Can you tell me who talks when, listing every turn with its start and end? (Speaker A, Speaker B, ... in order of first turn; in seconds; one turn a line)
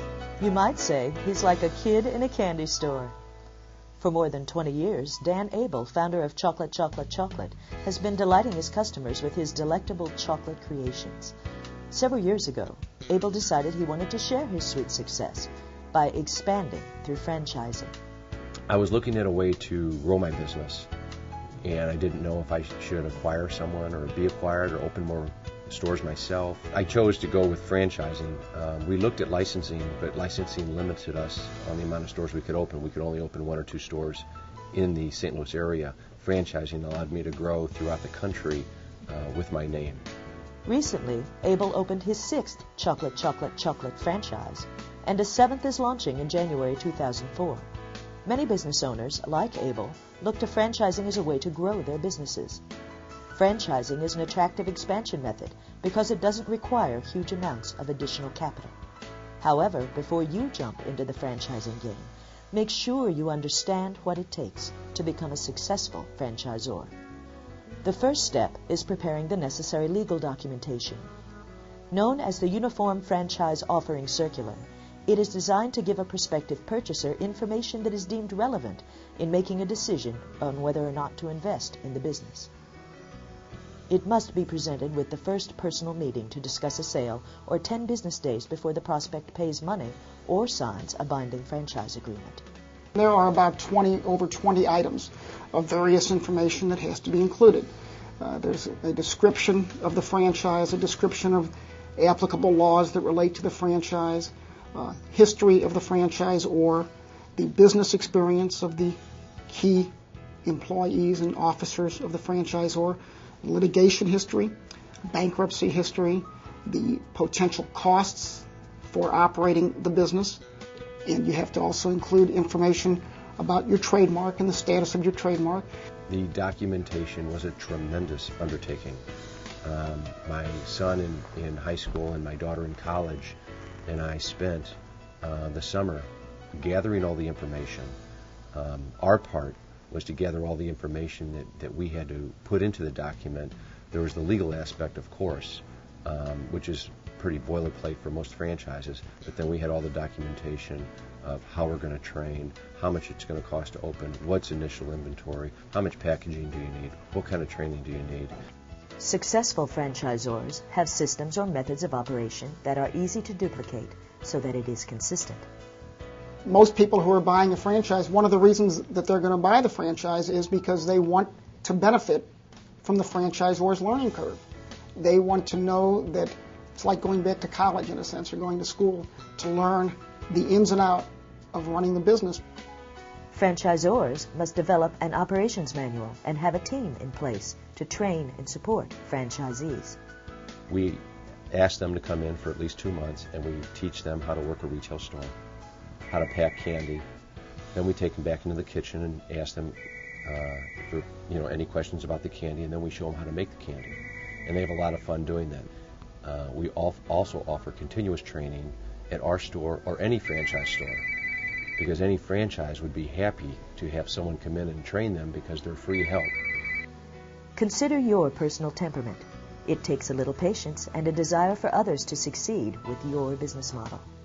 Speaker A: 0.4-3.1
Speaker A: 4.0-11.3
Speaker A: 11.9-17.9
Speaker B: 18.7-20.9
Speaker B: 21.6-40.0
Speaker A: 40.6-47.6
Speaker A: 48.2-52.6
Speaker A: 53.3-58.7
Speaker A: 59.4-66.9
Speaker A: 67.8-71.1
Speaker A: 71.9-82.5
Speaker A: 83.9-92.4
Speaker C: 92.9-109.0
Speaker C: 109.5-109.9
Speaker C: 110.4-114.5
Speaker C: 115.1-120.4
Speaker C: 121.0-125.7
Speaker B: 126.1-129.0
Speaker B: 129.6-137.9
Speaker B: 138.5-158.3
Speaker A: 159.0-165.4
Speaker C: 166.4-172.3
Speaker C: 172.8-174.4
Speaker C: 174.9-182.4
Speaker A: 183.3-190.0
Speaker B: 190.7-195.3
Speaker B: 196.1-197.0
Speaker B: 197.7-205.7
Speaker B: 206.2-211.1
Speaker B: 211.8-216.3
Speaker A: 217.6-224.0